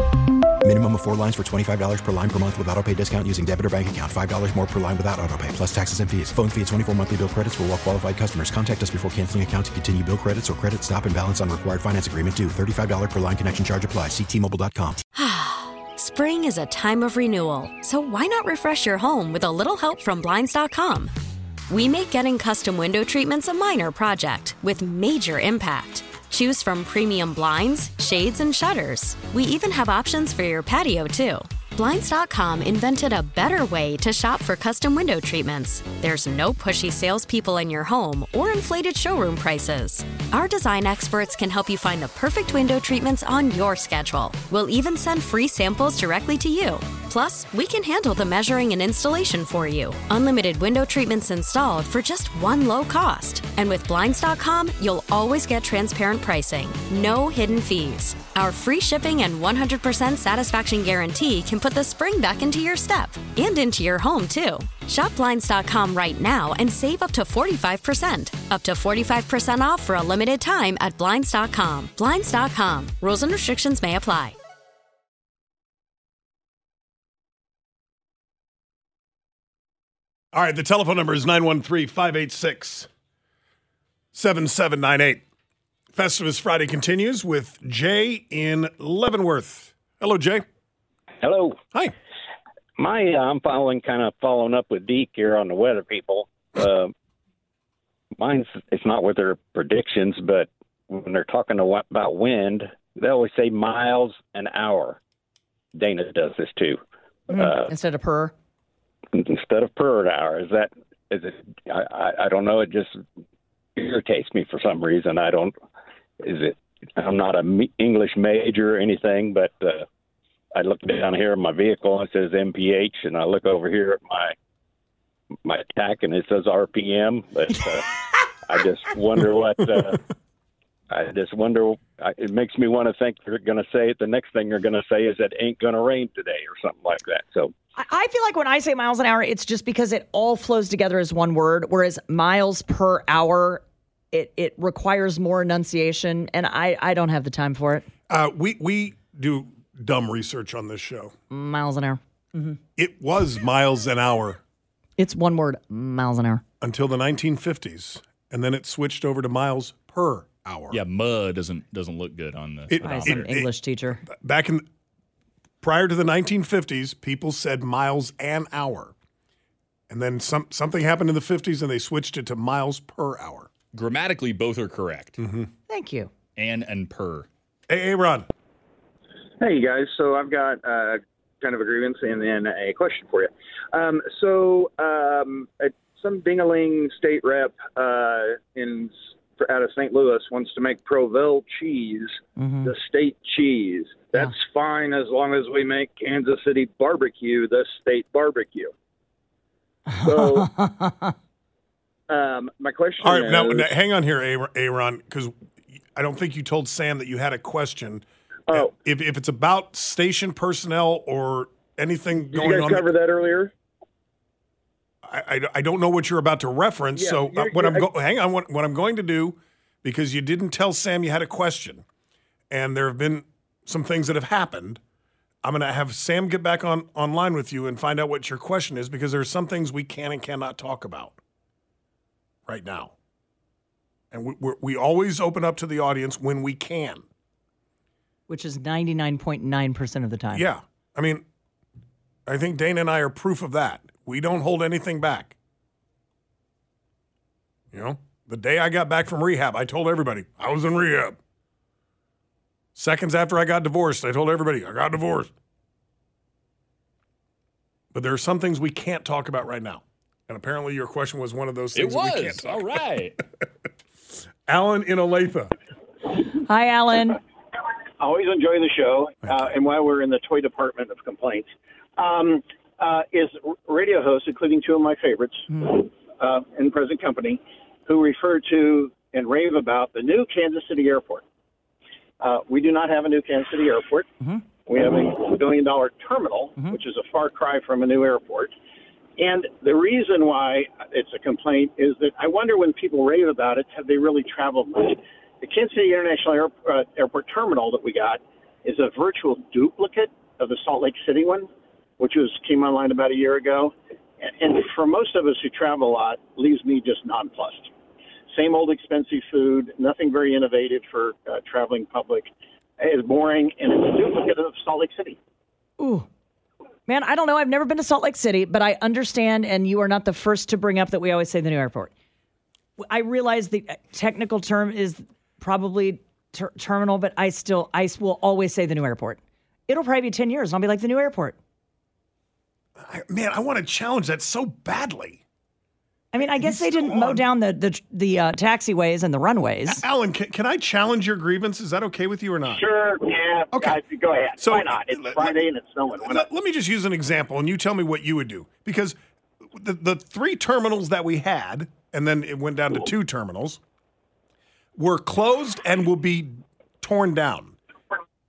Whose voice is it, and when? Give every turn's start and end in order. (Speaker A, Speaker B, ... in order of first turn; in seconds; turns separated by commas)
Speaker A: 0.6-15.0, Speaker B: 15.2-21.1, Speaker B: 21.7-74.3, Speaker C: 80.3-82.9, Speaker C: 84.1-85.2, Speaker C: 85.9-90.4, Speaker D: 91.2-91.6, Speaker D: 92.8-96.9, Speaker D: 98.2-105.0, Speaker D: 105.7-106.8, Speaker E: 107.3-108.3, Speaker D: 107.3-107.6, Speaker D: 109.1-113.0, Speaker D: 113.8-115.5, Speaker D: 116.2-119.8, Speaker D: 120.5-124.3, Speaker D: 125.4-127.8, Speaker D: 128.4-130.0, Speaker D: 130.9-137.5, Speaker E: 137.8-147.8, Speaker C: 148.1-151.1, Speaker E: 151.3-152.0, Speaker C: 152.8-154.4, Speaker E: 155.0-156.4, Speaker C: 156.6-160.8, Speaker F: 160.7-163.4, Speaker C: 162.7-163.5, Speaker E: 162.8-164.0, Speaker C: 164.0-164.7, Speaker C: 165.6-168.9, Speaker C: 169.9-173.5, Speaker F: 173.7-175.2, Speaker C: 175.2-175.5, Speaker E: 175.7-176.1, Speaker F: 176.3-177.3, Speaker C: 177.7-178.2, Speaker E: 192.4-192.7, Speaker E: 199.9-201.1, Speaker G: 202.8-203.6, Speaker C: 203.0-205.3, Speaker C: 205.9-212.9, Speaker G: 212.3-213.5, Speaker C: 215.0-221.8, Speaker G: 216.9-217.9, Speaker C: 222.5-224.8, Speaker C: 225.4-231.2, Speaker C: 232.5-232.9, Speaker C: 234.1-237.0, Speaker E: 238.3-240.4, Speaker C: 240.3-241.2, Speaker C: 242.3-245.3, Speaker C: 247.7-251.2, Speaker C: 252.8-255.3, Speaker C: 257.9-262.8, Speaker F: 261.7-263.2, Speaker C: 264.5-265.5, Speaker E: 266.4-267.2, Speaker H: 268.0-281.2, Speaker C: 269.2-269.5, Speaker H: 282.2-284.1, Speaker H: 284.7-288.5, Speaker H: 289.2-301.5, Speaker H: 302.0-307.7, Speaker H: 308.3-315.2, Speaker E: 315.8-316.1, Speaker E: 316.9-321.9, Speaker E: 322.8-331.4, Speaker C: 332.8-335.2, Speaker E: 336.1-339.8, Speaker C: 336.3-337.2, Speaker C: 339.7-342.7, Speaker H: 342.5-346.2, Speaker C: 343.5-343.8, Speaker C: 344.4-345.4, Speaker C: 346.0-349.0, Speaker C: 349.5-353.6, Speaker C: 354.8-357.6